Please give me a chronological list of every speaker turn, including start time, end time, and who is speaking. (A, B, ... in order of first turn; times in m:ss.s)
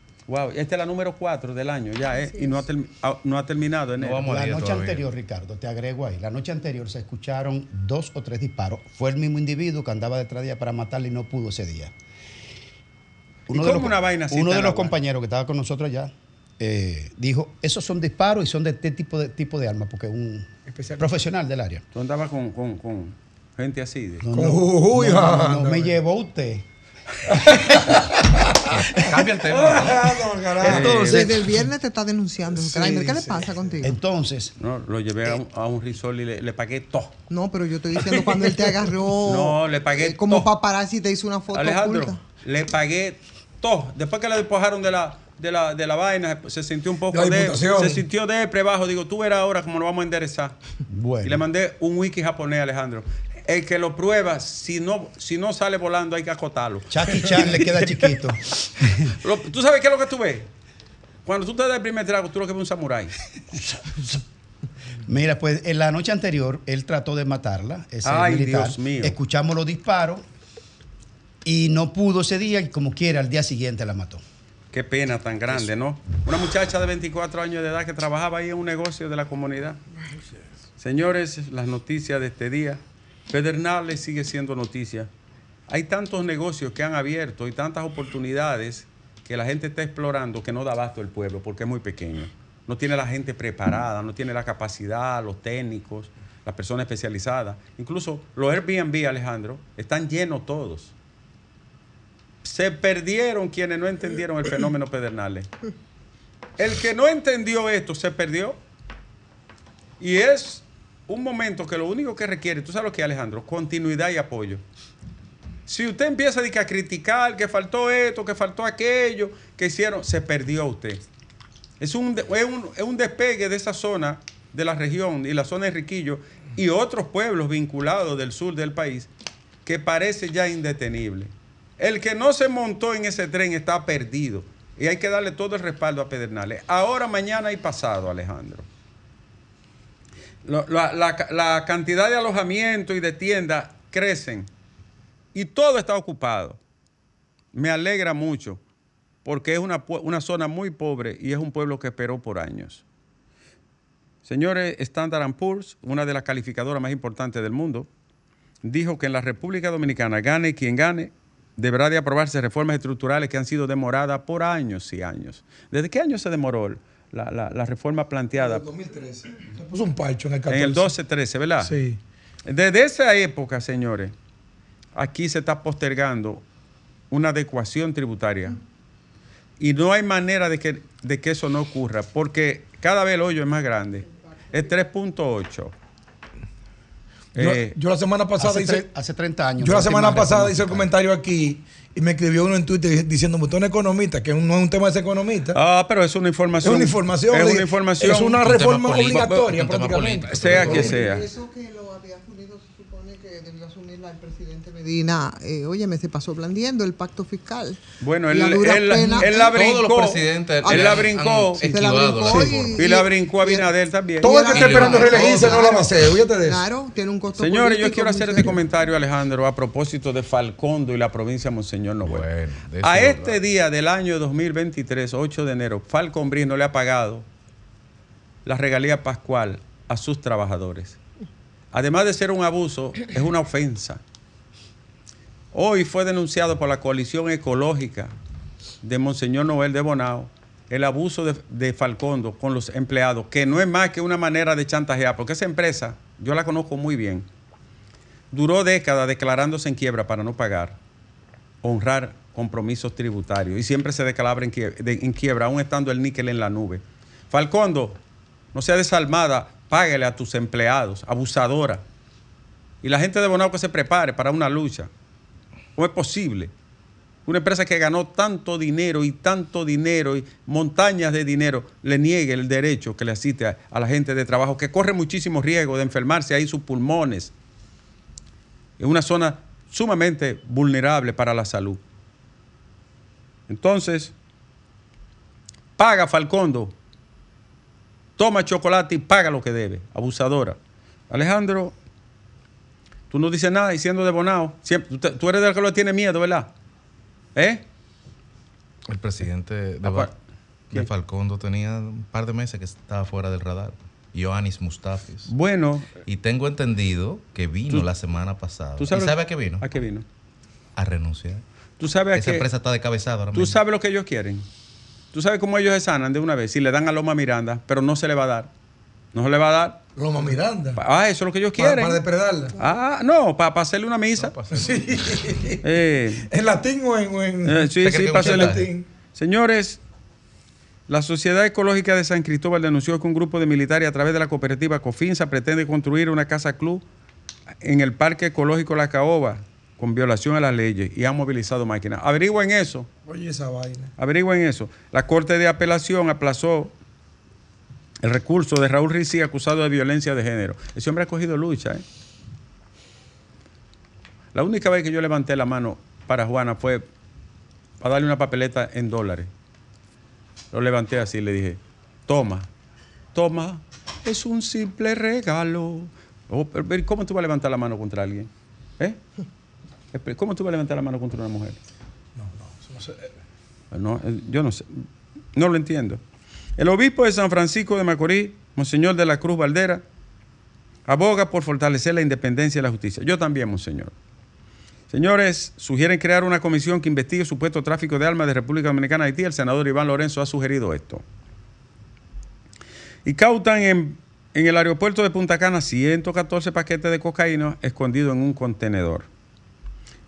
0:00.3-0:04.2 A
0:02.3-0:02.6 B
0:04.0-0:05.0 C
0:04.2-0:11.9 D
0:13.5-0:14.9 A
0:13.5-0:21.8 D
0:20.7-0:21.0 E
0:21.9-0:24.2 A
0:24.2-0:26.6 D
0:24.3-0:25.9 E
0:27.3-0:28.0 D
0:28.7-0:30.2 C
0:29.4-0:31.2 E
0:30.6-0:31.3 A
0:30.6-0:31.3 D
0:31.0-0:34.0 B
0:33.8-0:34.5 D
0:34.6-0:37.2 A
0:37.3-0:42.2 B
0:39.2-0:40.5 A
0:41.5-0:50.5 A
0:47.1-0:48.0 E
0:50.9-0:51.4 D
0:51.2-0:57.9 A
0:56.9-0:59.1 D
0:59.2-1:00.5 A
1:01.2-1:03.1 A
1:05.0-1:10.2 D
1:08.0-1:09.2 A
1:11.4-1:14.2 D
1:14.7-1:19.8 A
1:20.8-1:25.1 A
1:25.7-1:40.9 A
1:42.4-1:45.5 A
1:46.6-1:48.6 A
1:50.0-1:54.6 A
1:55.7-2:01.0 A
2:01.8-2:09.1 A
2:09.6-2:18.6 A
2:20.4-2:24.5 A
2:25.3-2:26.6 A
2:27.5-2:28.6 A
2:29.2-2:32.8 A
2:34.2-2:37.9 A
2:38.6-2:48.7 A
2:48.4-2:50.9 E
2:50.5-2:51.8 A
2:51.6-2:52.0 E
2:52.4-2:54.1 A
2:54.9-2:56.4 A
2:57.1-2:58.6 A
2:59.6-3:05.7 A
3:07.4-3:07.8 A
3:07.4-3:08.8 E
3:08.4-3:10.9 D
3:09.6-3:15.6 E
3:15.5-3:18.4 A
3:16.6-3:20.9 E
3:18.3-3:21.0 C
3:20.3-3:21.2 A
3:20.6-3:29.6 B
3:28.0-3:31.7 A
3:29.2-3:32.8 C
3:31.6-3:33.7 B
3:32.7-3:35.1 A
3:34.2-3:38.6 B
3:34.2-3:36.6 E
3:34.5-3:35.7 C
3:37.4-3:42.2 A
3:42.0-3:43.4 C
3:42.8-3:47.2 A
3:48.4-3:51.0 A
3:51.7-3:54.0 A
3:55.5-3:58.1 A
3:58.8-4:07.3 A
4:08.3-4:10.8 A
4:11.6-4:18.0 A
4:18.5-4:21.8 A
4:22.8-4:24.9 A
4:25.8-4:26.5 A
4:27.2-4:37.3 A
4:38.8-4:41.8 A
4:43.5-4:44.1 A
4:45.8-4:46.7 A
4:48.2-4:50.6 A
4:51.1-4:51.8 A
4:53.1-4:56.5 A
4:57.4-4:57.6 A
4:58.9-5:00.1 C
4:59.8-5:00.1 A
5:00.7-5:05.3 C
5:05.3-5:05.9 A
5:06.0-5:09.6 C
5:08.8-5:10.0 A
5:10.8-5:11.4 C
5:11.8-5:12.4 A
5:12.1-5:13.6 C
5:13.3-5:14.4 A
5:15.1-5:18.5 A
5:19.1-5:19.8 A
5:20.0-5:20.8 E
5:20.8-5:22.0 A
5:21.6-5:22.5 E
5:22.6-5:24.4 A
5:24.2-5:25.3 C
5:24.5-5:25.6 E
5:25.6-5:26.3 A
5:26.2-5:27.6 E
5:27.4-5:29.8 A
5:27.8-5:28.7 C
5:28.2-5:28.8 E
5:30.9-5:36.8 A
5:37.6-5:42.9 A
5:43.1-5:43.9 E
5:44.0-5:46.7 A
5:48.0-5:51.8 A
5:54.3-5:56.8 A
5:57.8-5:59.3 A
6:00.5-6:02.5 A
6:03.1-6:09.0 A
6:09.9-6:11.6 A
6:12.2-6:13.0 E
6:13.7-6:16.0 A
6:16.6-6:19.8 A
6:20.9-6:23.9 A
6:24.9-6:31.0 A
6:33.0-6:39.1 A